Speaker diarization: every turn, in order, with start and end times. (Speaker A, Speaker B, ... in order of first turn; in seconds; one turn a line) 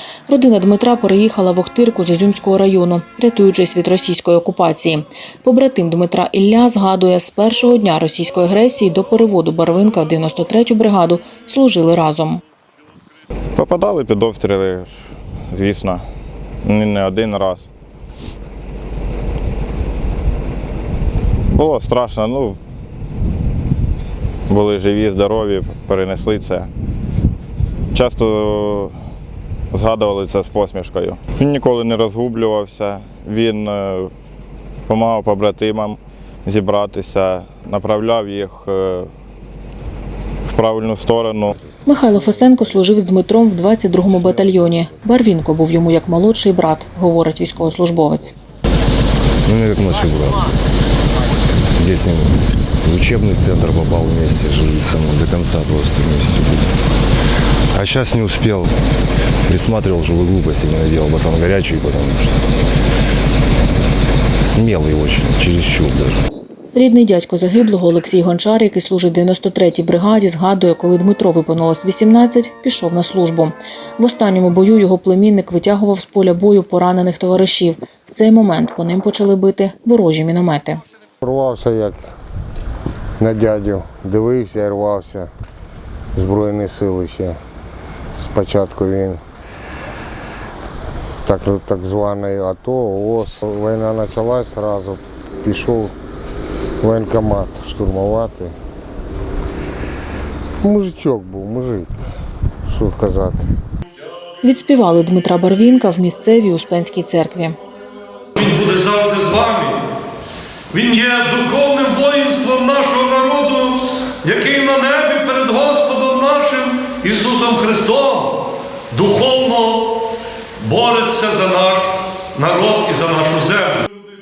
Speaker A: 0.3-12.4
Speaker B: 13.6-14.9
Speaker B: 15.5-16.0
Speaker B: 16.6-17.7
Speaker B: 21.5-22.6
Speaker B: 24.5-26.7
Speaker B: 27.9-28.9
Speaker B: 29.7-34.1
Speaker B: 34.9-39.1
Speaker B: 40.5-41.5
Speaker C: 41.7-42.6
Speaker A: 41.9-48.3
Speaker C: 49.5-50.6
Speaker C: 51.8-56.8
Speaker C: 57.7-58.7
Speaker C: 59.5-62.6
Speaker C: 64.4-66.2
Speaker A: 66.8-80.8
Speaker D: 81.2-82.0
Speaker D: 83.2-85.3
Speaker D: 86.2-87.4
Speaker D: 88.2-89.2
Speaker D: 91.2-95.9
Speaker D: 96.8-98.5
Speaker D: 100.6-102.0
Speaker D: 102.7-103.4
Speaker A: 104.4-107.6
Speaker E: 108.4-109.9
Speaker E: 110.7-120.0
Speaker E: 120.6-123.9